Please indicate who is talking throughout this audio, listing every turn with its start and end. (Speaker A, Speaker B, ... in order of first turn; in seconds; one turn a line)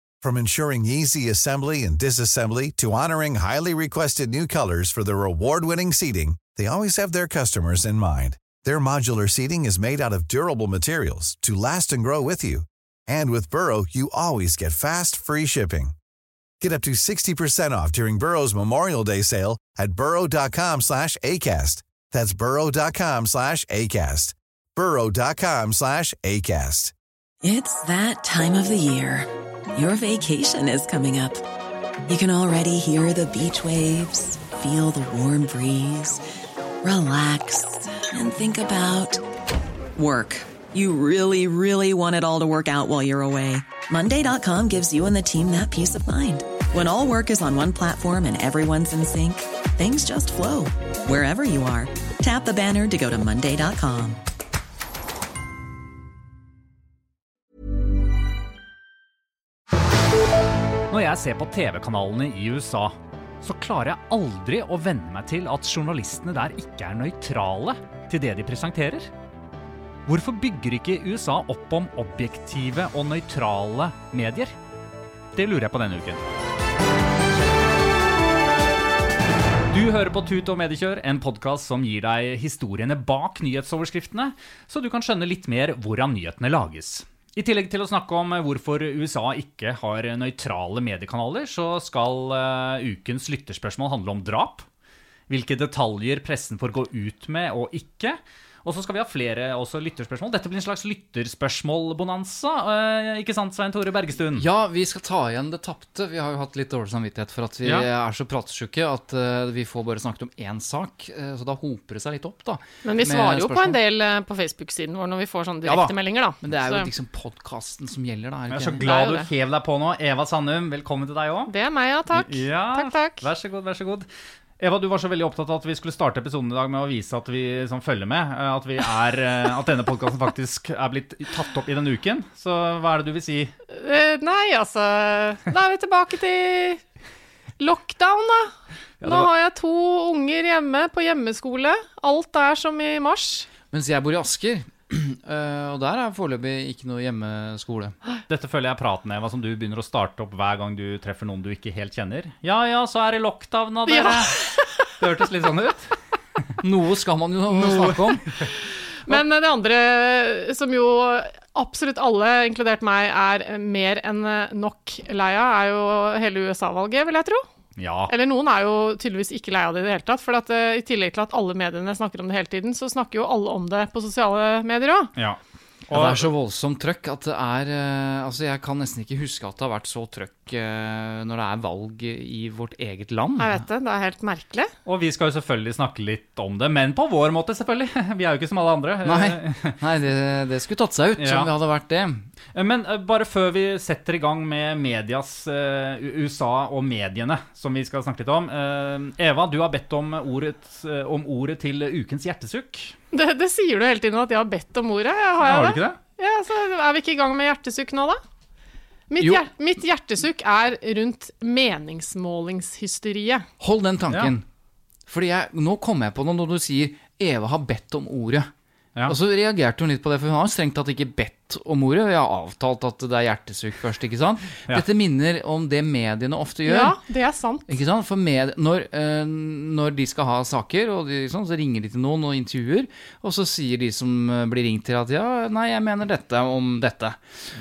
Speaker A: 0.2-15.9
Speaker A: 16.6-26.9
Speaker B: 27.4-31.4
Speaker B: 32.1-36.2
Speaker B: 36.8-39.2
Speaker B: 40.0-54.2
Speaker C: 60.9-69.1
Speaker C: 70.1-74.5
Speaker C: 75.3-76.3
Speaker C: 79.7-94.7
Speaker C: 95.3-104.5
Speaker D: 104.4-113.8
Speaker C: 107.6-107.9
Speaker E: 112.8-116.9
Speaker D: 115.7-118.9
Speaker C: 118.5-121.5
Speaker E: 118.8-119.3
Speaker E: 121.5-123.2
Speaker C: 122.1-124.1
Speaker C: 124.6-133.5
Speaker E: 133.7-136.8
Speaker E: 137.6-143.5
Speaker C: 139.0-139.3
Speaker D: 143.7-148.0
Speaker C: 148.3-155.9
Speaker E: 153.9-154.9
Speaker D: 156.6-158.2
Speaker C: 157.6-158.0
Speaker E: 159.1-167.4
Speaker C: 167.8-168.1
Speaker E: 168.1-175.1
Speaker C: 175.2-176.3
Speaker D: 175.9-183.6
Speaker E: 183.4-184.7
Speaker C: 184.9-189.8
Speaker D: 189.1-192.3
Speaker C: 191.2-191.5
Speaker C: 192.5-202.9
Speaker E: 203.1-208.2
Speaker C: 205.4-206.0
Speaker E: 209.1-213.5
Speaker D: 209.2-209.5
Speaker D: 213.6-214.4
Speaker D: 215.1-218.5
Speaker D: 219.1-227.0
Speaker E: 226.7-227.7
Speaker D: 227.7-237.2